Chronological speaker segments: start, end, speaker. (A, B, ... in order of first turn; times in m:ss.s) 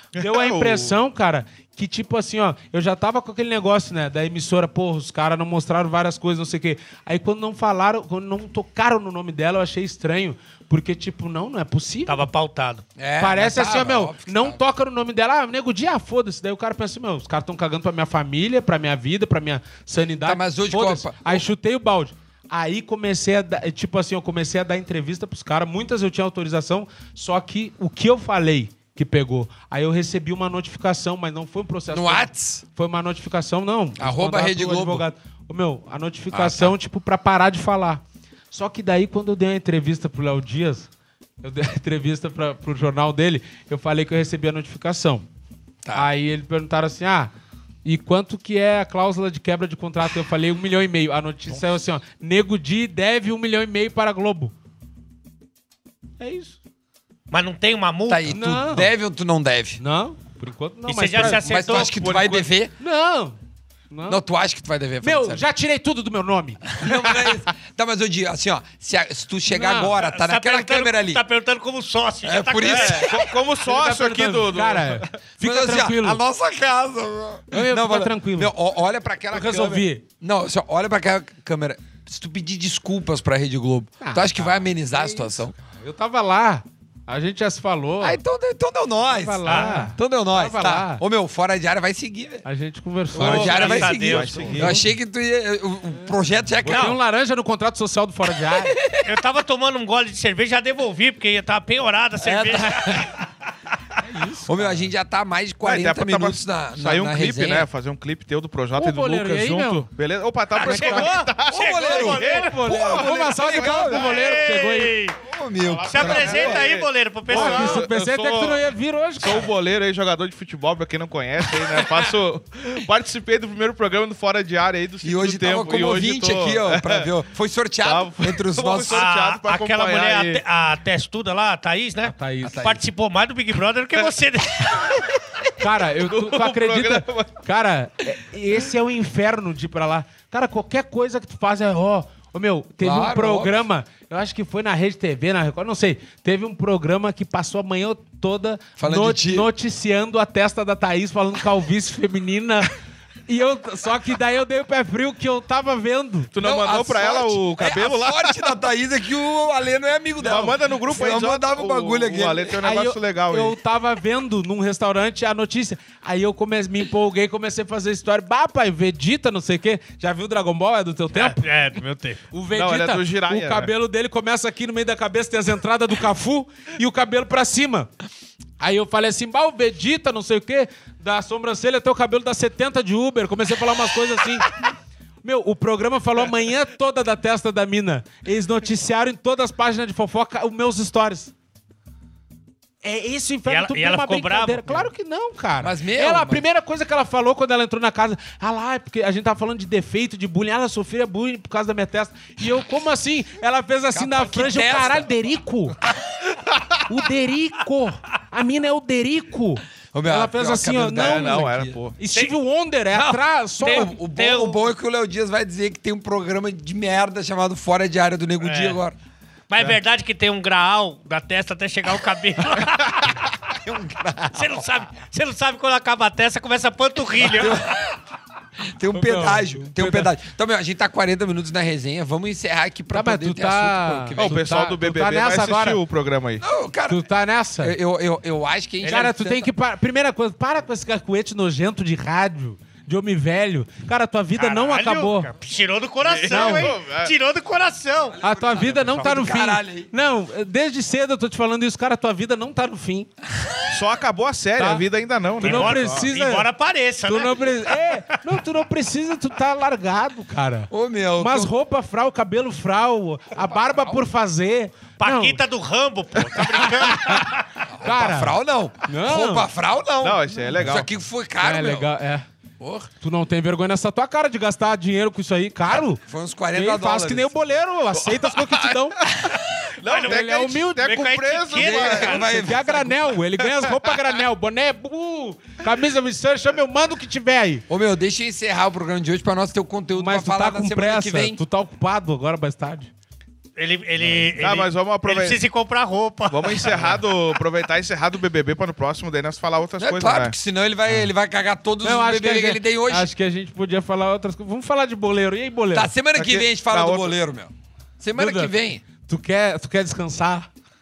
0:00.2-0:01.0 A
0:00.2-0:12.2 B
0:12.1-0:12.8 C
0:13.0-0:14.6 D
0:13.2-0:40.9 B
0:20.2-0:21.5 D
0:31.9-0:32.6 D
0:34.0-0:35.0 D
0:36.3-0:36.8 D
0:41.4-0:45.3 B
0:45.8-0:46.1 D
0:45.9-0:47.3 B
0:47.8-0:54.5 B
0:56.2-0:56.6 B
0:57.3-0:58.3 C
0:58.1-0:59.8 D
0:58.3-0:58.9 B
0:59.8-1:01.5 B
1:00.9-1:02.1 C
1:01.2-1:02.7 D
1:01.7-1:02.5 A
1:02.8-1:03.4 B
1:03.9-1:04.2 B
1:04.1-1:05.4 D
1:05.0-1:07.2 B
1:06.7-1:11.2 D
1:09.5-1:10.0 B
1:10.0-1:13.2 C
1:12.2-1:13.3 D
1:12.7-1:15.1 A
1:13.6-1:16.2 B
1:15.4-1:25.6 D
1:17.5-1:18.5 B
1:19.3-1:20.0 B
1:24.0-1:28.2 B
1:28.0-1:32.4 D
1:29.1-1:31.0 B
1:29.4-1:29.9 C
1:32.4-1:34.9 B
1:33.1-1:37.0 D
1:33.2-1:34.8 C
1:33.2-1:34.8 A
1:36.6-1:38.8 B
1:36.7-1:37.0 C
1:38.9-1:43.2 C
1:42.2-1:43.2 D
1:44.0-1:44.8 B
1:44.4-1:47.7 D
1:45.6-1:54.4 A
1:48.8-1:49.9 B
1:50.5-1:52.6 C
1:50.6-1:51.2 B
1:51.5-1:54.2 D
1:52.1-1:55.0 B
1:53.9-1:55.2 C
1:55.2-1:56.7 D
1:55.6-1:58.7 A
1:55.9-1:57.9 C
1:57.3-1:59.5 B
1:59.2-2:07.1 A
2:05.0-2:09.1 D
2:07.8-2:10.4 A
2:08.9-2:15.0 C
2:12.1-2:12.7 B
2:12.4-2:12.8 D
2:15.6-2:32.7 B
2:16.0-2:17.3 A
2:22.8-2:23.6 D
2:28.8-2:29.5 D
2:33.3-2:36.3 B
2:36.3-2:38.5 A
2:36.4-2:42.6 D
2:40.2-2:43.6 A
2:42.6-2:51.4 B
2:51.2-2:52.2 C
2:52.3-2:57.9 B
2:52.5-2:53.7 A
2:58.6-3:04.6 B
3:05.2-3:11.3 B
3:12.8-3:25.8 B
3:13.5-3:14.9 C
3:15.6-3:16.5 D
3:23.9-3:25.1 D
3:26.9-3:33.9 B
3:29.9-3:31.8 D
3:30.9-3:32.0 A
3:32.9-3:34.7 C
3:33.6-3:39.0 D
3:38.4-3:38.8 C
3:39.5-3:43.3 C
3:43.5-3:44.7 D
3:44.3-3:47.8 C
3:47.2-3:48.0 D
3:48.6-3:54.4 D
3:48.9-3:50.1 B
3:52.9-3:55.8 B
3:54.2-3:56.4 A
3:56.4-3:57.1 D
3:56.9-3:57.8 B
3:57.6-3:59.5 D
3:58.8-3:59.2 C
3:58.9-4:05.3 B
4:04.4-4:09.1 C
4:06.0-4:07.1 A
4:06.3-4:06.8 B
4:08.1-4:09.9 D
4:08.2-4:13.1 B
4:13.7-4:16.1 A
4:14.6-4:14.8 B
4:15.4-4:16.5 B
4:15.4-4:18.2 C
4:17.0-4:25.4 B
4:20.7-4:21.5 D
4:23.3-4:24.0 D
4:25.0-4:27.7 C
4:26.3-4:29.5 B
4:27.7-4:31.9 D
4:30.0-4:30.9 A
4:31.4-4:32.3 B
4:32.6-4:32.9 D
4:33.0-4:39.0 B
4:36.0-4:37.4 D
4:38.0-4:39.5 D
4:39.0-4:42.4 A
4:39.8-4:42.5 C
4:40.1-4:41.0 B
4:41.5-4:43.2 D
4:42.1-4:47.6 B
4:47.7-4:51.4 D
4:49.9-4:52.9 B
4:53.6-4:57.0 C
4:54.4-4:55.4 A
4:56.3-5:00.3 A
4:59.8-5:03.1 D
5:01.8-5:05.9 B
5:05.7-5:08.8 D
5:06.2-5:07.2 A
5:08.2-5:10.5 B